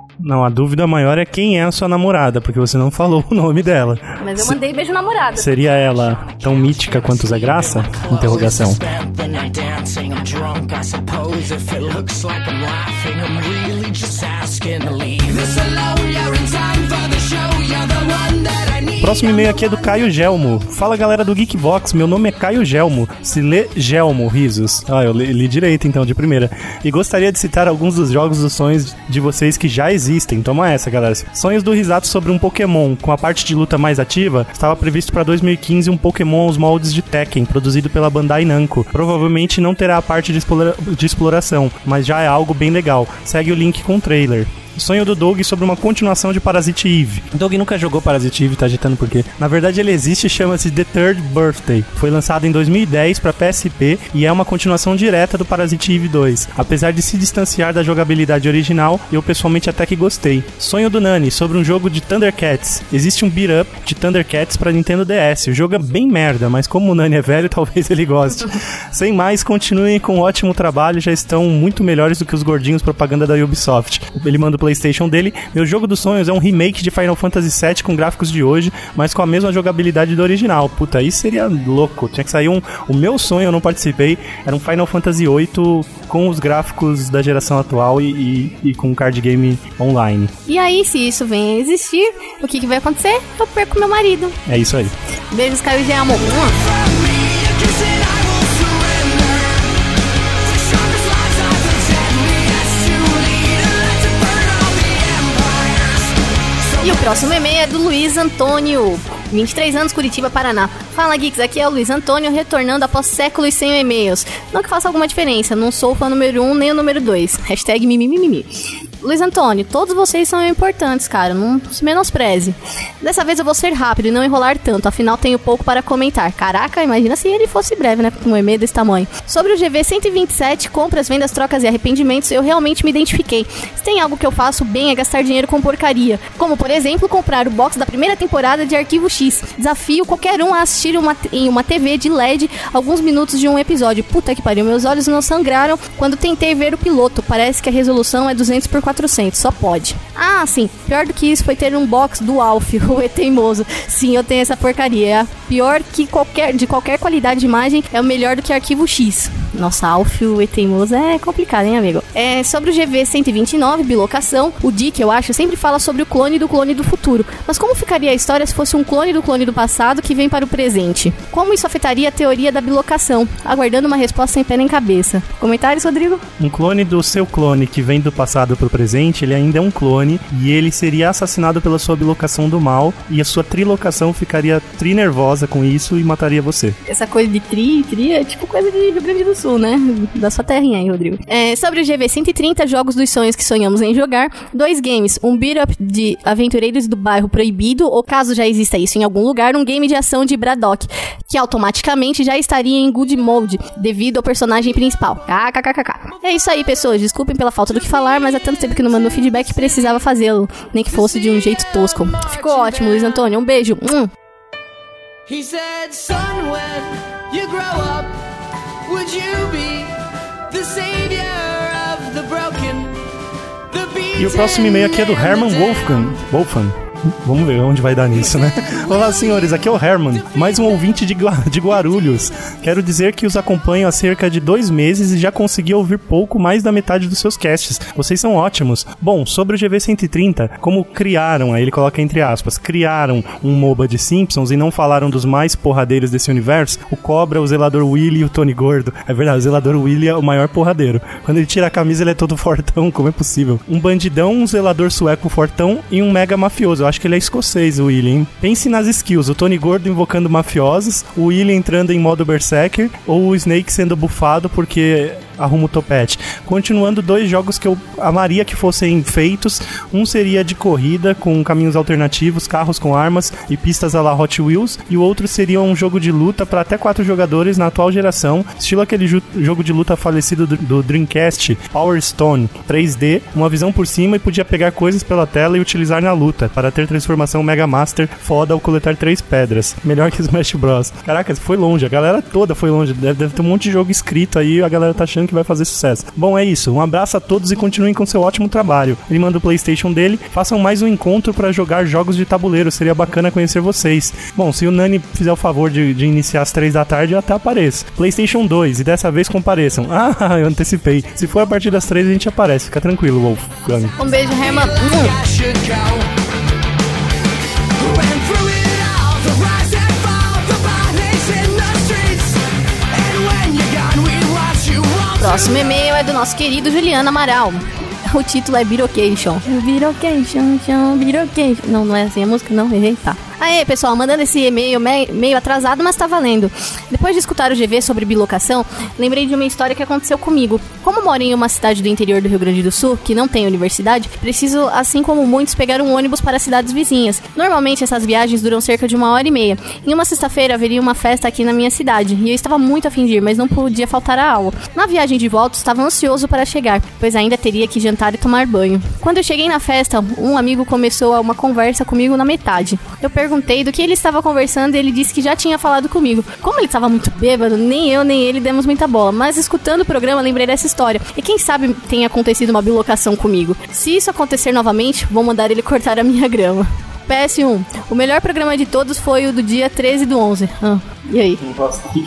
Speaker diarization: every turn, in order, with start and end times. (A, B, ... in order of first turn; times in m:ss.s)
0:00.2-0:04.6 A
0:04.2-0:05.5 B
0:05.4-0:08.8 A
0:05.7-0:19.7 C
0:19.0-1:30.3 A
1:30.5-1:34.4 B
1:34.5-1:34.9 A
1:35.3-1:36.6 B
1:36.6-1:39.8 C
1:40.4-1:47.4 C
1:46.8-1:58.5 B
1:59.0-2:56.2 B
2:56.4-3:06.8 A
3:06.9-3:34.1 B
3:27.7-3:30.0 C
3:30.9-3:33.3 C
3:35.3-3:38.1 C
3:38.9-3:40.0 C
3:40.5-3:43.0 C
3:43.7-3:46.2 C
3:44.2-5:14.0 A
3:48.2-3:51.1 C
3:51.8-3:52.5 C
5:14.0-5:15.1 B
5:14.0-5:16.1 C
5:17.8-5:22.4 C
5:22.9-5:25.7 C
5:25.2-6:21.4 B